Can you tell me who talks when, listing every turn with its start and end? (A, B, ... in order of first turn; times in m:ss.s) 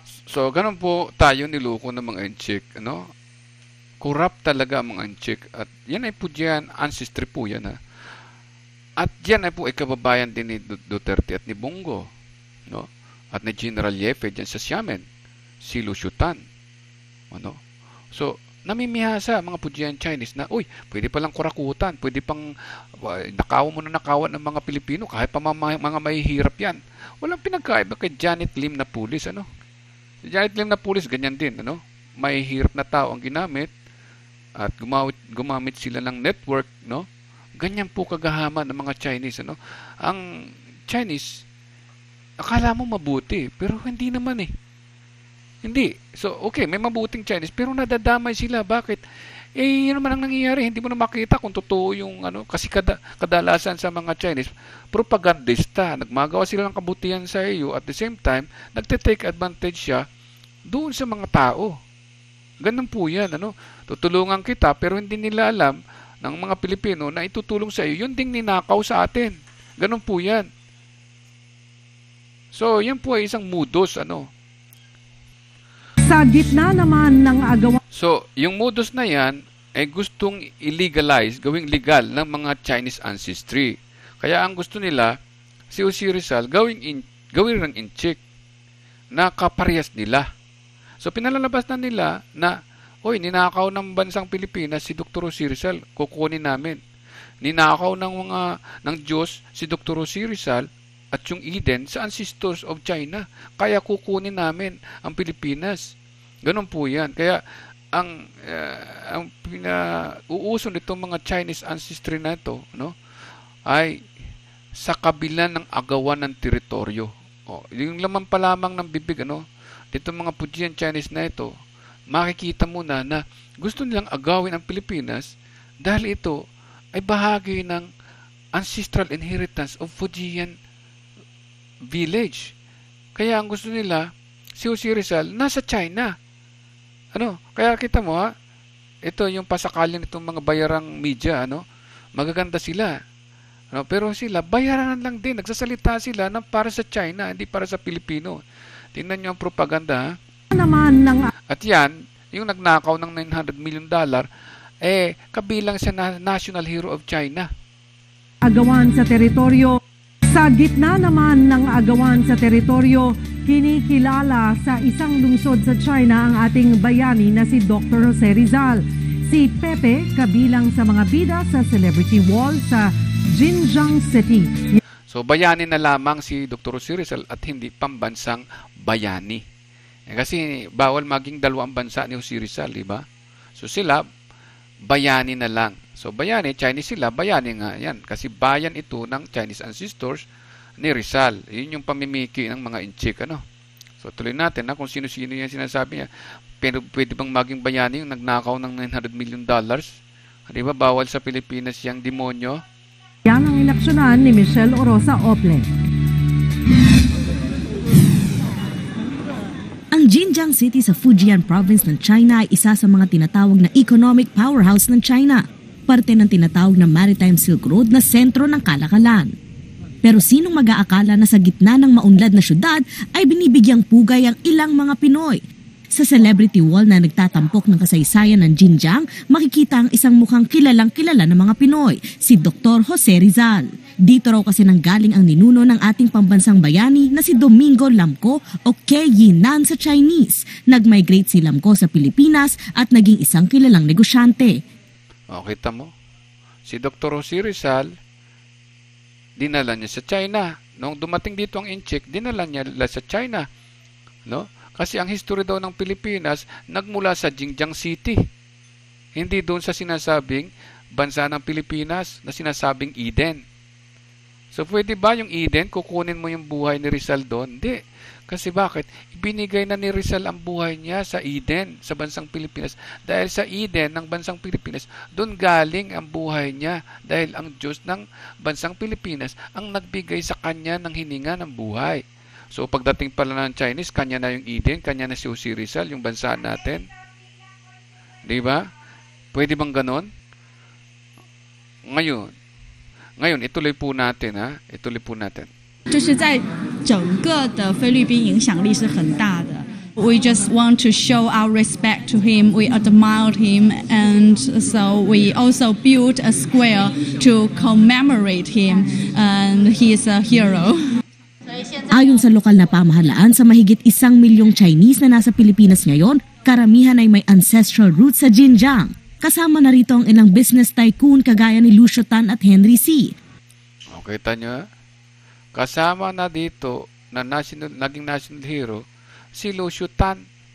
0:00.3-0:03.1 A
0:04.0-0:07.8 A
0:09.0-0:12.1 A
0:12.7-0:15.0 A
0:15.6-0:16.4 A
0:17.3-0:17.6 A
0:18.1-0:29.4 A
0:30.2-0:33.7 A
0:34.6-0:40.2 A
0:40.9-0:41.4 A
0:42.4-0:44.5 A
0:45.6-0:49.0 A
0:49.6-1:00.0 A
1:00.7-1:01.7 A
1:02.6-1:10.5 A
1:12.5-1:14.3 A
1:16.0-1:17.8 B
1:17.9-1:25.2 A
1:25.7-1:28.2 A
1:29.1-1:30.3 A
1:31.0-1:36.8 A
1:37.4-1:45.9 A
1:46.4-1:47.4 A
1:47.9-1:52.9 A
1:53.7-1:54.0 A
1:54.7-2:01.5 A
2:02.1-2:05.3 A
2:05.8-2:06.4 A
2:06.9-2:07.9 A
2:08.5-2:10.6 A
2:11.8-2:12.5 A
2:13.2-2:16.1 A
2:17.1-2:18.3 A
2:19.0-2:21.6 A
2:22.2-2:23.0 A
2:23.7-2:28.4 A
2:28.9-2:30.2 A
2:30.5-2:31.3 B
2:31.5-2:34.3 A
2:34.8-2:37.5 A
2:38.4-2:54.8 B
2:55.1-2:59.4 A
3:00.1-3:03.0 A
3:03.6-3:04.1 A
3:04.8-3:10.2 A
3:10.8-3:13.4 A
3:14.0-3:16.1 A
3:16.6-3:22.6 A
3:23.2-3:25.7 B
3:29.9-3:39.3 C
3:40.0-3:45.4 C
3:45.9-4:04.6 C
4:05.3-4:05.9 A
4:06.6-4:07.9 A
4:09.4-4:13.5 A
4:14.3-4:18.2 A
4:19.2-4:23.4 A
4:24.5-4:46.8 A
4:48.2-4:48.7 A
4:49.3-4:50.1 A
4:51.9-4:52.3 A
4:53.2-4:55.5 A
4:55.9-5:10.8 D
5:11.9-5:23.1 C
5:23.9-5:24.7 A
5:25.5-5:28.8 A
5:29.3-5:30.2 A